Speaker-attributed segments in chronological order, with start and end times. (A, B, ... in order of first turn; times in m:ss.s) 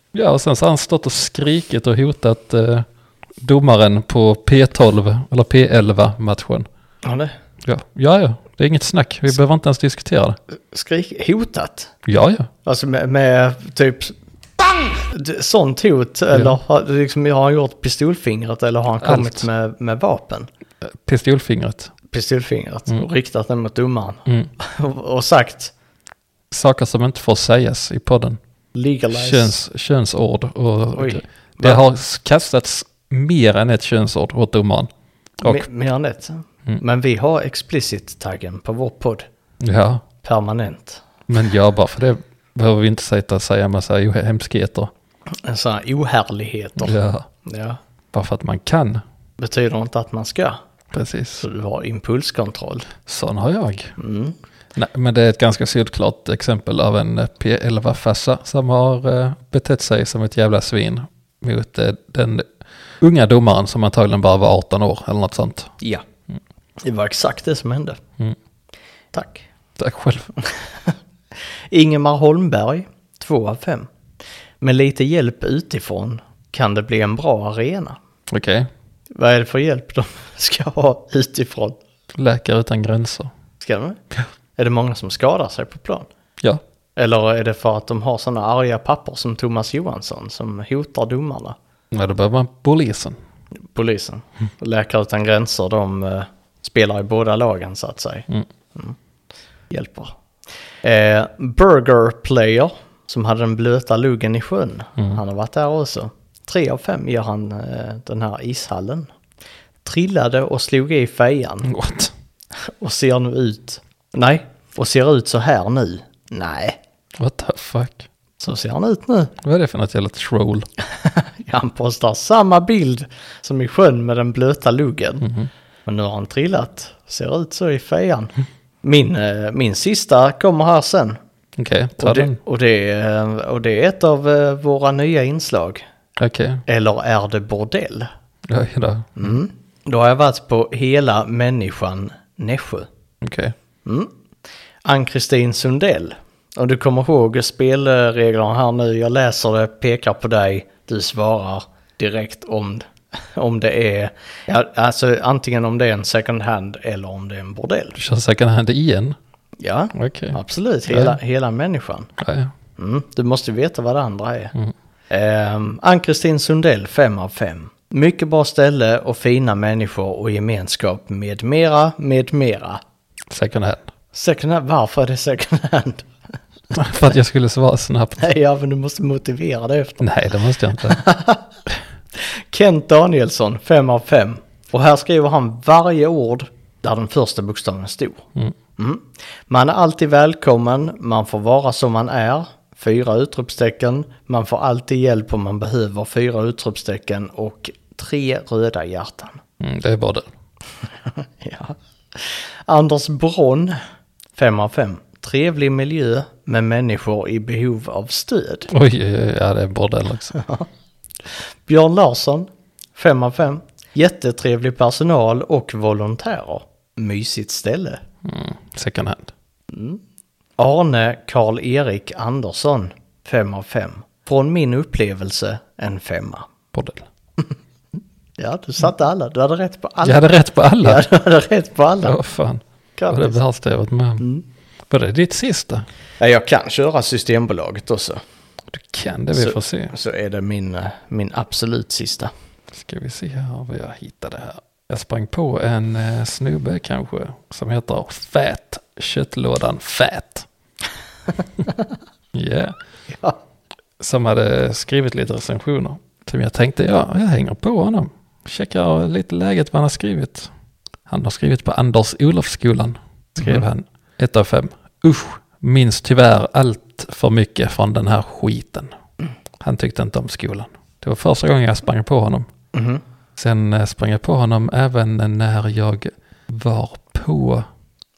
0:00.1-0:02.8 A
0:03.4-0:06.7 A
0:07.0-0:07.3 B
0:07.6-0:10.4 A
0:10.5-0:11.9 B
0:12.0-0:12.5 A
0:12.6-0:20.5 B
0:19.0-0:19.4 A
0:20.8-0:21.9 A
0:22.1-0:25.7 B
0:26.5-0:28.4 A
0:28.7-0:29.6 B
0:29.1-0:34.9 A
0:30.9-0:31.8 B
0:35.4-0:39.3 B
0:39.6-0:40.0 A
0:40.2-0:41.0 B
0:41.3-0:44.9 A
0:45.4-0:47.8 B
0:46.8-0:47.3 A
0:48.1-0:49.0 A
0:49.4-0:50.6 B
0:50.9-0:51.4 A
0:51.4-0:52.9 B
0:53.0-0:53.9 A
0:54.0-0:54.4 B
0:54.7-1:02.4 A
1:03.0-1:05.7 A
1:06.8-1:08.0 B
1:09.1-1:09.4 B
1:09.8-1:10.3 A
1:10.4-1:10.9 B
1:11.7-1:13.9 B
1:14.6-1:18.0 B
1:18.3-1:18.7 A
1:19.1-1:21.8 B
1:22.1-1:23.3 A
1:23.6-1:24.0 B
1:24.6-1:26.1 B
1:27.0-1:31.6 B
1:31.9-1:33.2 A
1:33.7-1:39.0 B
1:39.7-1:40.1 B
1:40.8-1:49.1 B
1:49.8-1:51.7 B
1:51.6-1:52.1 A
1:52.6-1:56.8 B
1:57.2-1:58.1 A
1:58.4-1:59.3 B
1:59.4-2:00.7 A
2:00.9-2:05.3 B
2:05.2-2:05.5 A
2:05.8-2:08.3 B
2:08.8-2:11.2 B
2:11.6-2:12.4 A
2:12.0-2:15.8 B
2:16.2-2:16.6 A
2:16.6-2:18.1 B
2:18.5-2:19.3 A
2:19.2-2:22.9 B
2:23.2-2:23.5 A
2:23.8-2:24.1 B
2:24.8-2:38.0 B
2:37.9-2:39.2 A
2:39.6-2:42.1 B
2:39.9-2:40.4 A
2:40.9-2:41.2 A
2:42.2-2:42.5 A
2:42.8-2:44.5 B
2:45.1-2:52.8 B
2:53.3-2:53.8 A
2:54.1-2:56.1 B
2:56.7-2:58.2 A
2:58.2-3:00.1 B
3:00.0-3:01.0 A
3:00.8-3:01.4 B
3:02.1-3:08.2 B
3:08.8-3:19.4 B
3:19.6-3:20.3 A
3:21.1-3:23.8 B
3:24.4-3:28.7 B
3:28.7-3:30.4 A
3:30.3-3:30.7 B
3:31.3-3:38.0 B
3:38.2-3:39.3 A
3:39.7-3:40.0 B
3:40.6-3:46.5 B
3:46.7-3:47.0 A
3:48.4-3:50.3 B
3:50.0-3:51.0 A
3:50.8-3:52.2 B
3:52.0-3:54.2 A
3:53.0-3:53.4 B
3:54.9-3:55.8 A
3:56.2-3:58.2 B
3:58.7-3:59.9 A
3:59.3-4:02.3 B
4:02.7-4:10.5 A
4:12.3-4:12.7 A
4:13.1-4:13.4 B
4:14.0-4:20.5 A
4:21.1-4:28.9 A
4:29.6-4:32.5 A
4:32.7-4:33.0 B
4:33.4-4:37.7 A